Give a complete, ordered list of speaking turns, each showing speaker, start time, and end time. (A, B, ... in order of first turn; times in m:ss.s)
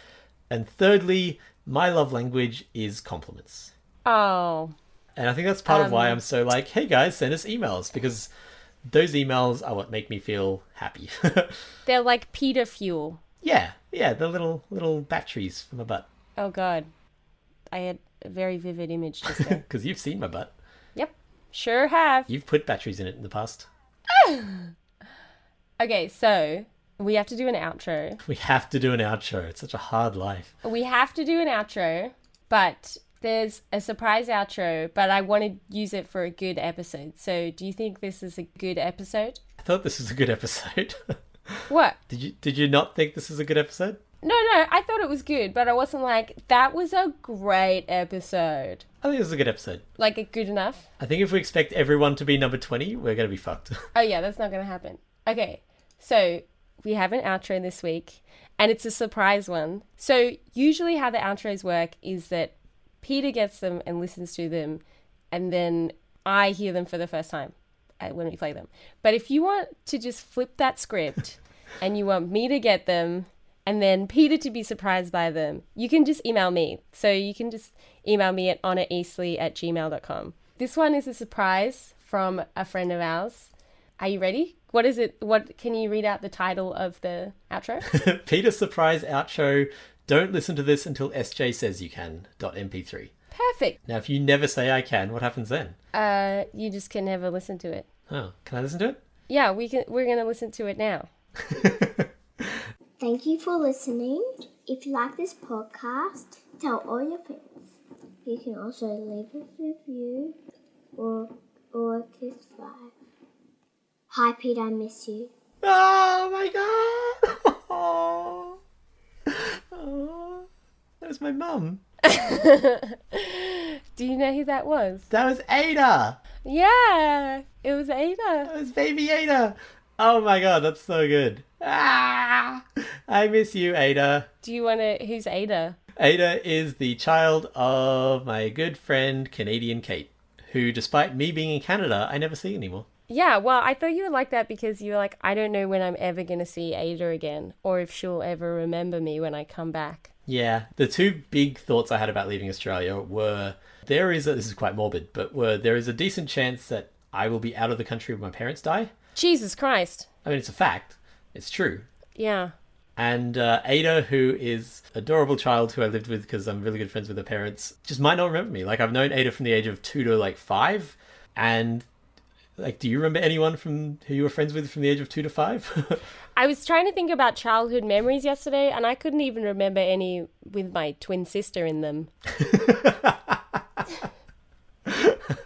0:00.5-0:03.7 A
0:04.0-0:04.7 B
0:05.2-0:08.3 A
0:05.7-0:06.2 B
0:08.9-0:11.7 A
0:11.8-0:13.2 B
0:13.4-0:16.0 A
0:16.4-0:16.9 B
0:17.7-0:19.6 B
0:19.3-0:20.5 A
0:21.0-0:22.3 B
0:22.3-0:23.7 A
0:24.1-0:24.7 B
0:25.8-0:28.2 B
0:28.2-0:30.5 A
0:30.6-0:39.4 B
0:39.6-0:44.0 A
0:41.7-0:42.0 B
0:44.2-0:48.8 B
0:49.0-0:49.8 A
0:50.0-0:50.8 B
0:51.0-0:53.9 A
0:53.9-1:27.9 B
1:27.9-1:33.1 A
1:33.3-1:33.8 B
1:33.8-1:35.8 A
1:35.9-1:37.9 B
1:38.1-1:39.0 A
1:39.3-1:41.1 B
1:41.5-1:42.1 A
1:43.0-1:50.4 C
1:51.0-1:52.9 C
1:54.1-1:55.3 C
1:55.6-1:58.6 A
1:59.3-2:00.5 A
2:01.0-2:01.8 A
2:02.0-2:05.1 B
2:05.1-2:06.2 A
2:06.4-2:08.5 B
2:08.5-2:14.3 A
2:14.4-2:15.8 B
2:16.0-2:22.8 A
2:23.1-2:30.1 B
2:30.3-2:38.9 A
2:39.1-2:40.1 B
2:40.2-2:41.9 A
2:42.2-2:42.5 B
2:43.0-2:51.8 A
2:52.6-2:56.0 A
2:56.4-3:02.1 B
3:02.4-3:03.4 A
3:04.9-3:05.4 A